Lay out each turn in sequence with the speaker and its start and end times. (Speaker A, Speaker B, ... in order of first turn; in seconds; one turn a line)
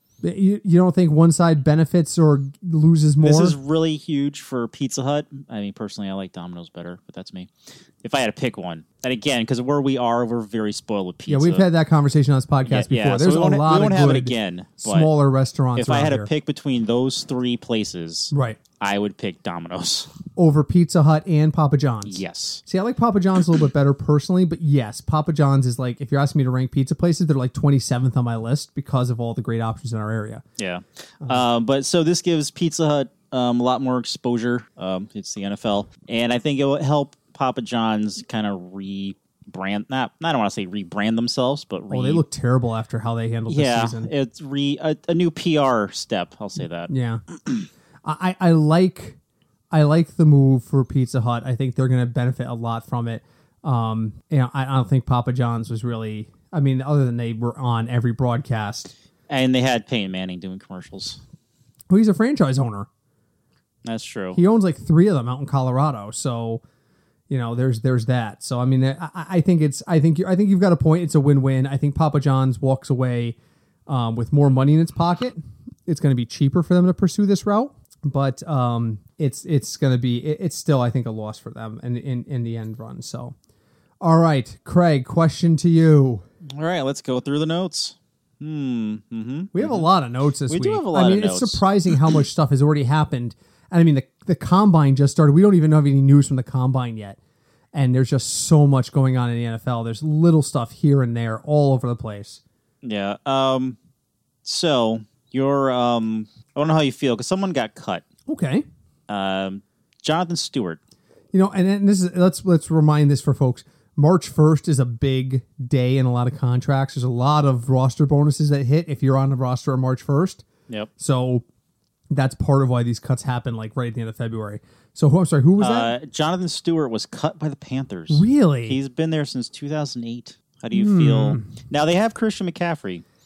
Speaker A: 0.2-3.6
Speaker B: 3.2-7.5
Speaker B: 8.0-11.7
Speaker A: 11.3-16.3
Speaker B: 12.7-15.1
Speaker B: 15.8-20.1
Speaker A: 18.3-18.6
Speaker A: 20.4-30.4
Speaker B: 22.1-22.6
Speaker B: 30.6-42.2
Speaker A: 41.9-44.1
Speaker B: 43.5-46.9
Speaker A: 46.9-47.2
Speaker A: 48.0-49.2
Speaker A: 49.7-58.9
Speaker B: 59.3-61.2
Speaker A: 61.9-62.9
Speaker B: 63.9-64.4
Speaker A: 64.3-66.6
Speaker A: 67.3-73.4
Speaker A: 73.9-83.3
Speaker A: 84.0-86.2
Speaker B: 86.6-89.9
Speaker A: 89.5-97.2
Speaker B: 90.5-91.7
Speaker A: 97.7-102.4
Speaker B: 102.8-103.8
Speaker B: 104.5-108.0
Speaker A: 108.3-108.7
Speaker B: 109.1-110.8
Speaker A: 111.3-120.5
Speaker A: 121.0-121.5
Speaker A: 122.1-125.9
Speaker B: 125.6-133.0
Speaker A: 128.1-128.8
Speaker A: 130.7-131.5